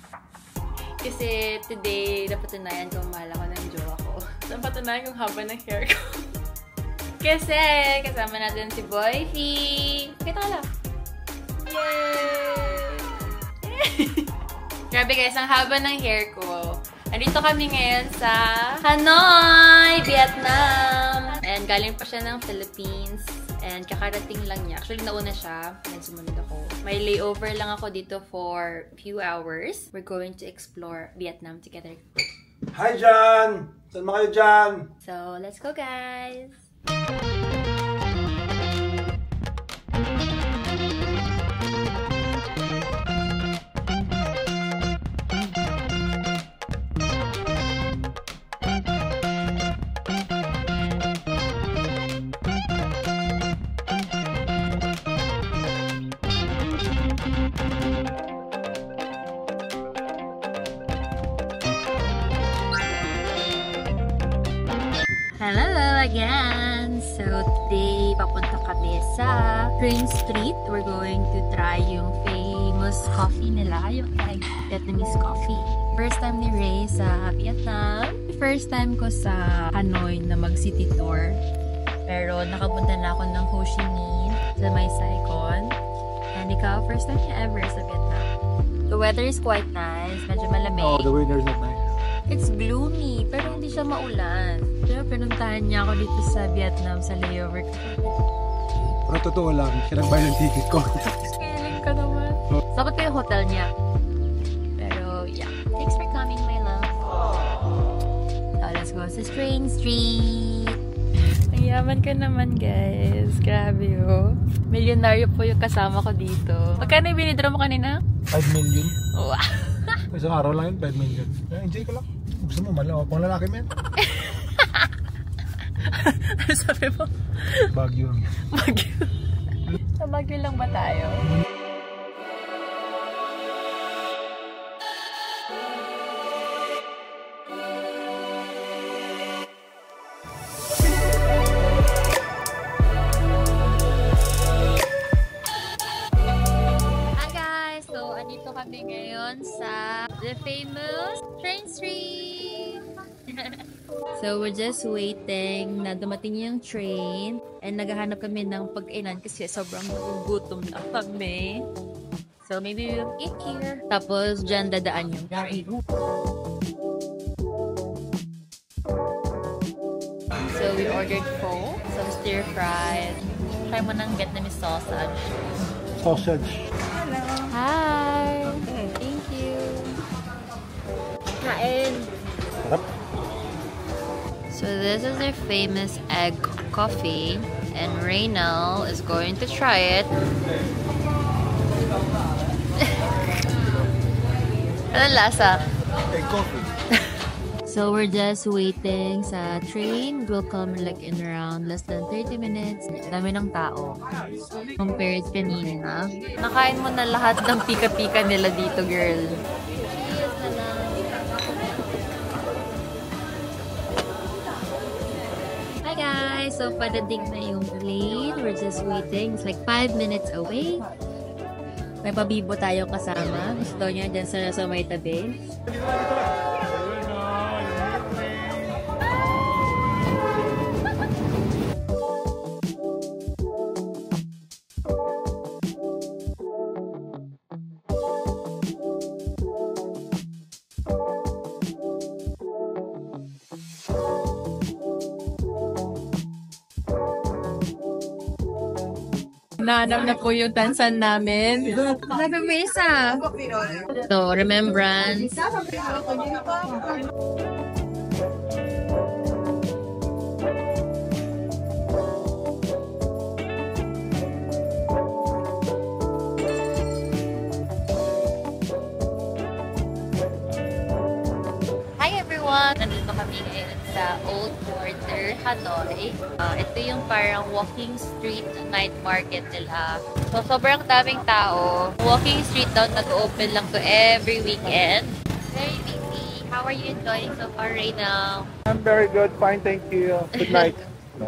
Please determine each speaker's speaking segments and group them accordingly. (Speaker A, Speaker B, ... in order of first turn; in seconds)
Speaker A: 1.0-6.2, 7.2-10.7, 11.6-14.3, 14.9-32.0, 35.0-36.6, 65.4-81.4, 82.1-85.8, 86.3-88.3, 88.9-91.1, 92.3-98.1, 101.2-103.7, 104.8-107.0, 108.6-110.8, 111.5-118.0, 119.1-120.0, 124.0-124.9, 125.7-127.7, 128.4-131.3, 147.2-153.6, 154.1-161.7, 162.4-165.8, 170.5-175.2, 177.4-180.0, 181.4-182.1, 184.5-190.1, 194.9-195.7, 197.7-204.0, 204.8-209.4, 209.9-211.1, 215.8-220.8, 222.0-225.5, 249.6-253.2, 254.1-255.4, 272.0-288.5, 290.4-290.8
Speaker B: 32.7-34.9, 90.8-91.8, 99.1-101.2, 118.3-118.9, 120.1-123.7, 127.7-128.3, 176.0-176.7, 196.1-196.7, 225.7-228.8, 288.7-290.8